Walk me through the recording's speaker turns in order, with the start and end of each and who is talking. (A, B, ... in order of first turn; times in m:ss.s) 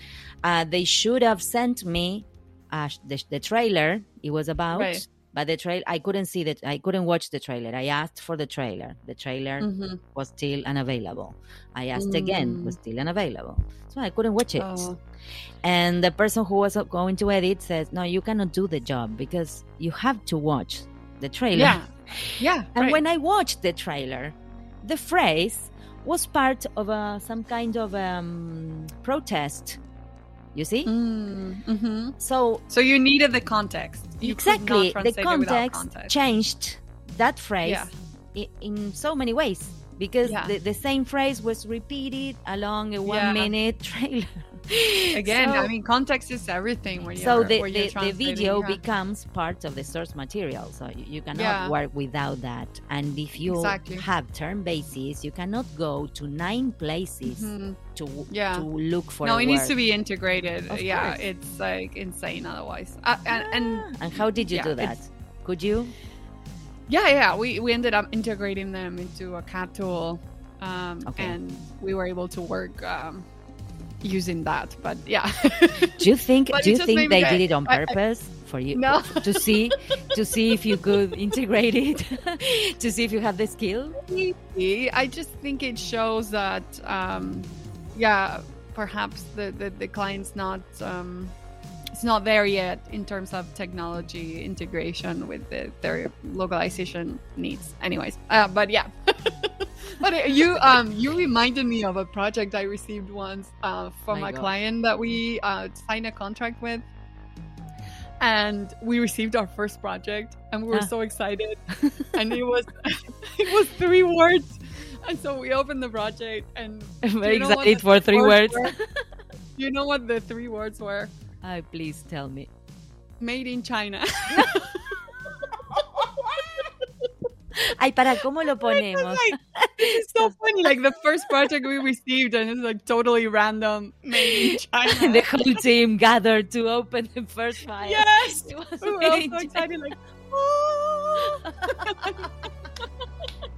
0:00.4-0:14.9 A
0:04.7-0:05.0 B
0:09.6-0:10.0 B
0:11.9-0:12.8 B
0:14.6-0:15.0 B
0:15.6-0:29.8 A
0:21.5-0:23.0 B
0:30.5-0:30.9 A
0:30.8-0:32.2 B
0:32.2-0:32.6 A
0:32.7-0:36.1 B
0:34.2-0:45.7 A
0:37.6-0:37.9 B
0:40.2-0:40.6 B
0:43.1-0:43.5 B
0:45.1-0:48.8 B
0:47.1-0:59.8 A
0:51.3-0:51.8 B
0:53.4-0:54.1 B
0:57.2-0:57.8 B
0:58.3-0:58.7 B
0:59.2-1:05.0 B
1:00.7-1:01.2 A
1:03.3-1:05.9 A
1:06.9-1:13.3 B
1:11.0-1:11.4 A
1:14.0-1:18.0 B
1:16.0-1:24.0 A
1:18.8-1:19.8 B
1:24.0-1:31.3 B
1:31.9-1:46.8 B
1:44.1-1:44.5 A
1:48.2-1:58.8 B
1:51.7-1:52.1 A
1:57.0-1:59.0 A
1:59.6-2:01.1 B
2:01.4-2:02.5 A
2:03.2-2:05.0 B
2:04.3-2:05.3 A
2:05.8-2:07.1 B
2:07.5-2:10.4 A
2:08.6-2:15.6 B
2:14.2-2:19.7 A
2:17.8-2:22.3 B
2:21.2-2:22.2 A